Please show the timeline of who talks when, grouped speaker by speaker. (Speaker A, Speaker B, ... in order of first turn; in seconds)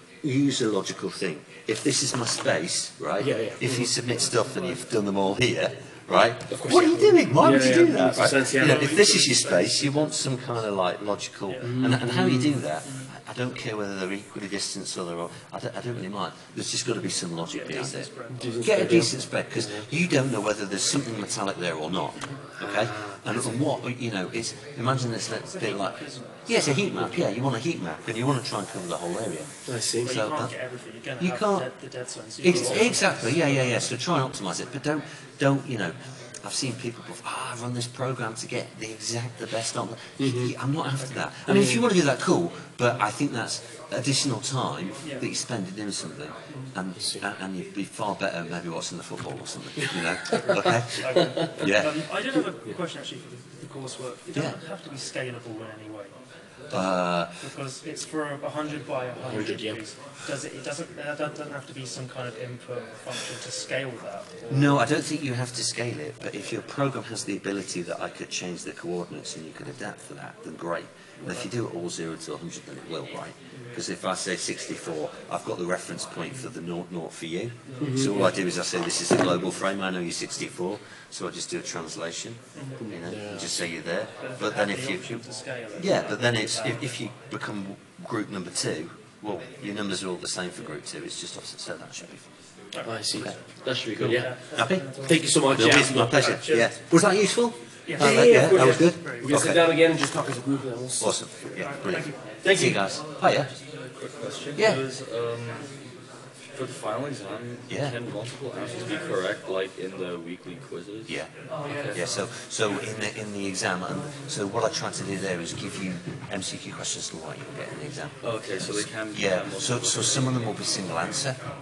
Speaker A: 0.2-18.1, 18.6-29.5, 30.0-30.5, 31.2-31.7, 32.4-52.0, 56.7-57.4, 64.5-92.2, 94.0-94.9, 95.5-99.6, 101.0-103.5, 104.5-104.8, 107.7-108.0, 111.9-121.4
Speaker B: 3.2-3.9, 6.5-9.8, 11.6-12.6, 18.3-19.8, 29.6-30.1, 40.2-40.5, 41.5-41.8, 47.0-47.2, 49.9-51.5, 59.3-59.8, 77.8-78.3, 82.8-83.6, 92.8-94.4, 94.9-96.4, 98.0-101.3, 102.4-102.8
Speaker C: 11.5-11.9, 17.5-18.8, 22.3-23.4, 25.5-27.3, 30.0-33.8, 50.3-56.1, 56.7-64.9, 77.8-78.1, 82.5-82.9, 84.2-86.9, 92.7-93.4, 94.0-96.8, 97.8-99.3, 101.5-102.6, 111.5-112.0
Speaker D: 103.7-105.7, 106.5-112.0, 118.2-120.5